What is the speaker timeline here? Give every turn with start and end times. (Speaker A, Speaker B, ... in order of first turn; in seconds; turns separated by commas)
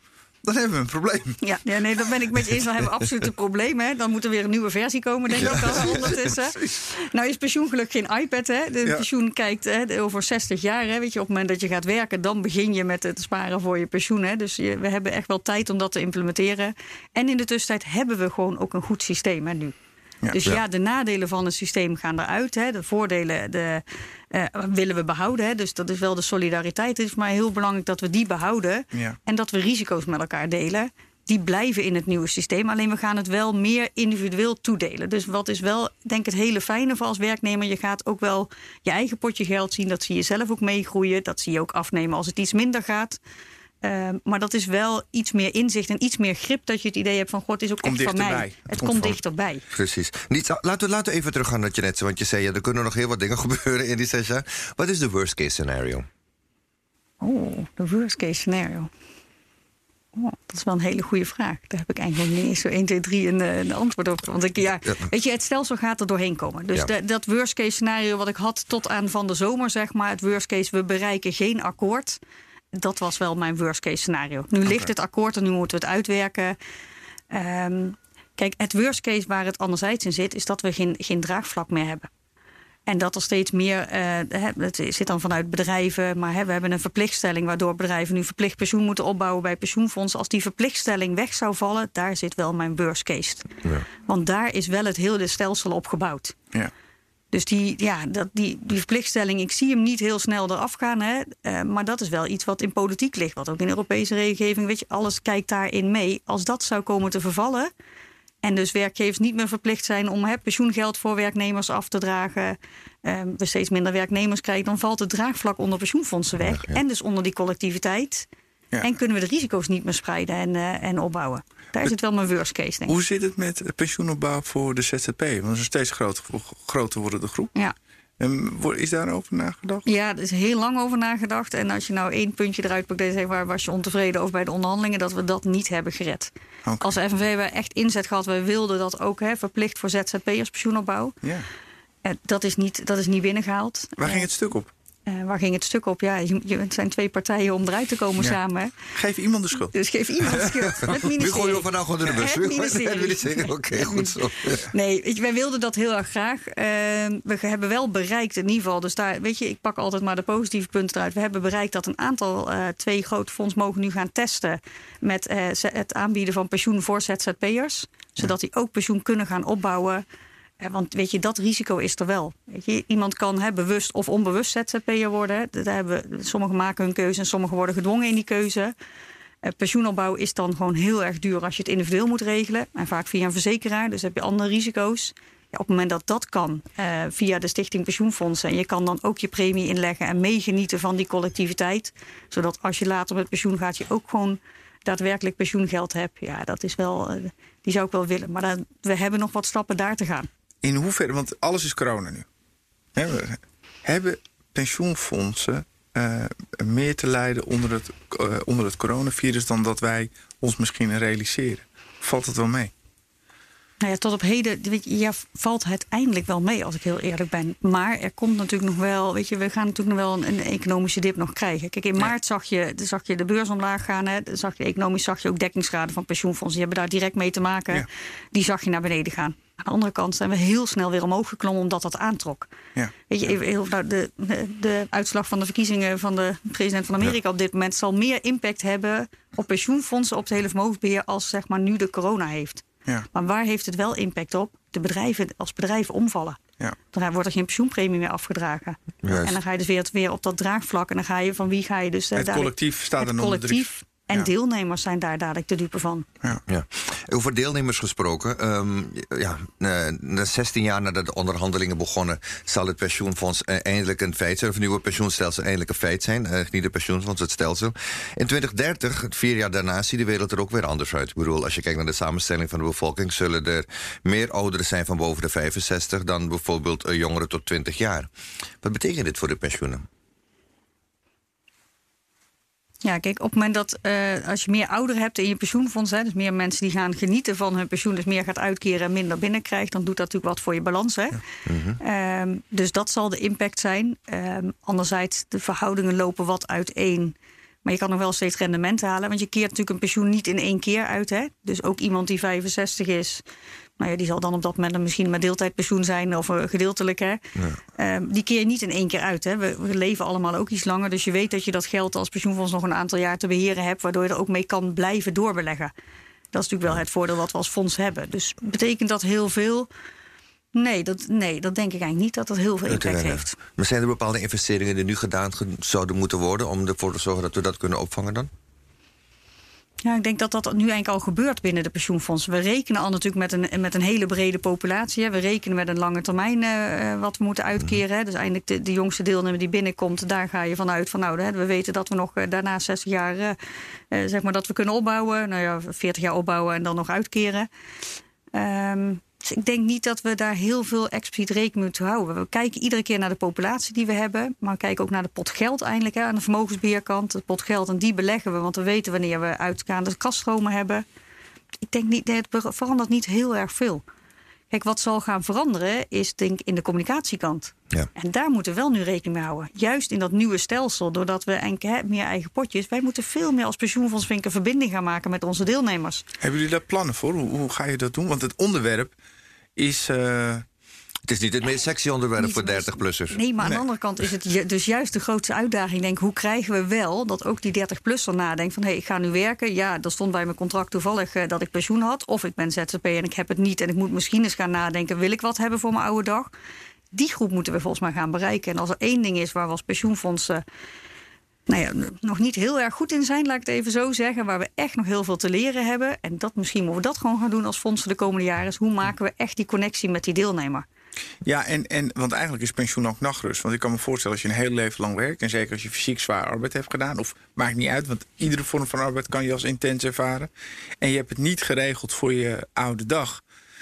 Speaker A: 0.4-1.4, Speaker B: 1.4-19.7, Speaker C: 5.5-6.1, Speaker B: 20.3-43.2, Speaker B: 43.8-49.6, Speaker A: 47.8-49.2, Speaker C: 49.7-56.1, Speaker B: 57.2-58.9, Speaker B: 60.1-72.2, Speaker B: 72.7-76.5, Speaker B: 77.3-82.1, Speaker B: 82.9-93.5, Speaker B: 94.0-96.4, Speaker B: 97.3-107.7, Speaker B: 108.4-118.3, Speaker C: 116.4-116.8, Speaker B: 118.8-123.0, Speaker A: 122.9-127.5, Speaker A: 128.2-129.8, Speaker B: 129.8-141.2, Speaker A: 136.6-136.9, Speaker A: 141.2-141.5, Speaker B: 142.0-144.3, Speaker A: 144.0-144.7, Speaker B: 145.1-148.7, Speaker A: 148.9-149.7, Speaker B: 149.7-170.0, Speaker C: 150.4-154.7, Speaker B: 170.6-178.7, Speaker B: 179.4-200.3, Speaker A: 200.6-202.3, Speaker A: 202.9-212.7, Speaker B: 213.8-232.5, Speaker B: 233.1-246.4, Speaker B: 246.9-256.1, Speaker C: 249.0-249.4, Speaker A: 252.1-254.3, Speaker C: 256.5-278.1, Speaker C: 278.6-279.8, Speaker B: 282.8-291.2, Speaker C: 291.4-291.8, Speaker B: 291.8-303.2, Speaker B: 303.8-307.2, Speaker B: 307.7-315.7, Speaker B: 316.3-319.7, Speaker B: 320.5-323.3, Speaker C: 322.7-328.3, Speaker B: 329.8-343.4, Speaker B: 343.9-347.5, Speaker B: 348.3-360.8, Speaker B: 361.6-363.8, Speaker B: 364.5-376.0, Speaker A: 376.2-378.9, Speaker A: 379.6-380.4, Speaker C: 381.1-383.2, Speaker B: 382.2-396.3, Speaker B: 396.9-400.4, Speaker B: 401.5-410.6, Speaker A: 411.2-423.2